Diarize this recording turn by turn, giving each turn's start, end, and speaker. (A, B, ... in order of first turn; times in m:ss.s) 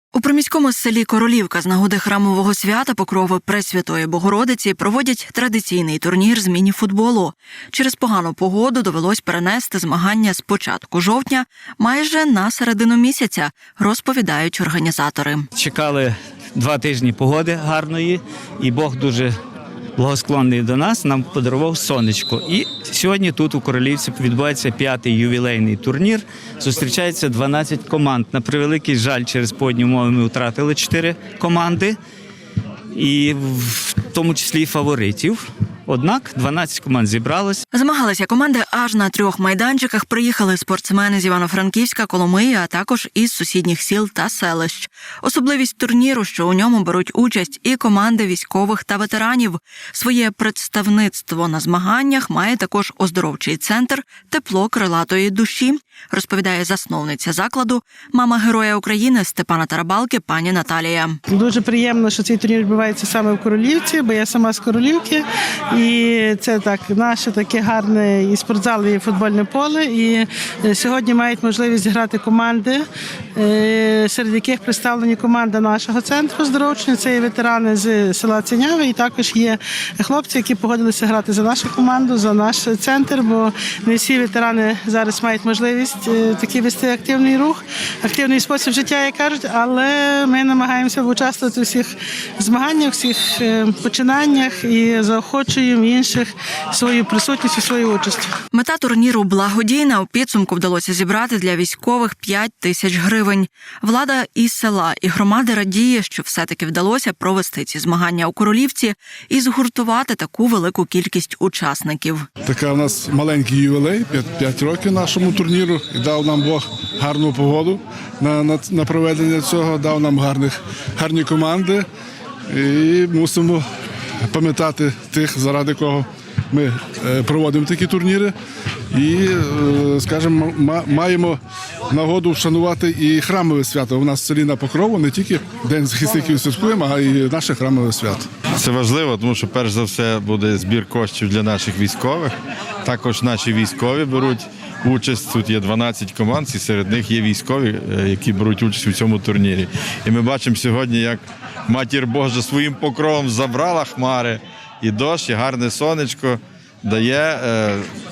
0:00.1-0:15.5 A
0:15.6-0:19.3 B
0:20.0-0:32.0 B
0:32.9-0:37.6 B
0:37.7-1:01.2 A
1:01.4-1:05.2 C
1:05.7-1:12.8 C
1:13.4-1:38.3 C
1:38.5-1:52.3 A
1:52.4-2:01.8 D
2:02.5-2:03.6 D
2:04.3-2:08.3 D
2:08.9-2:11.4 D
2:11.9-2:18.3 D
2:18.6-2:22.3 E
2:22.8-2:37.9 E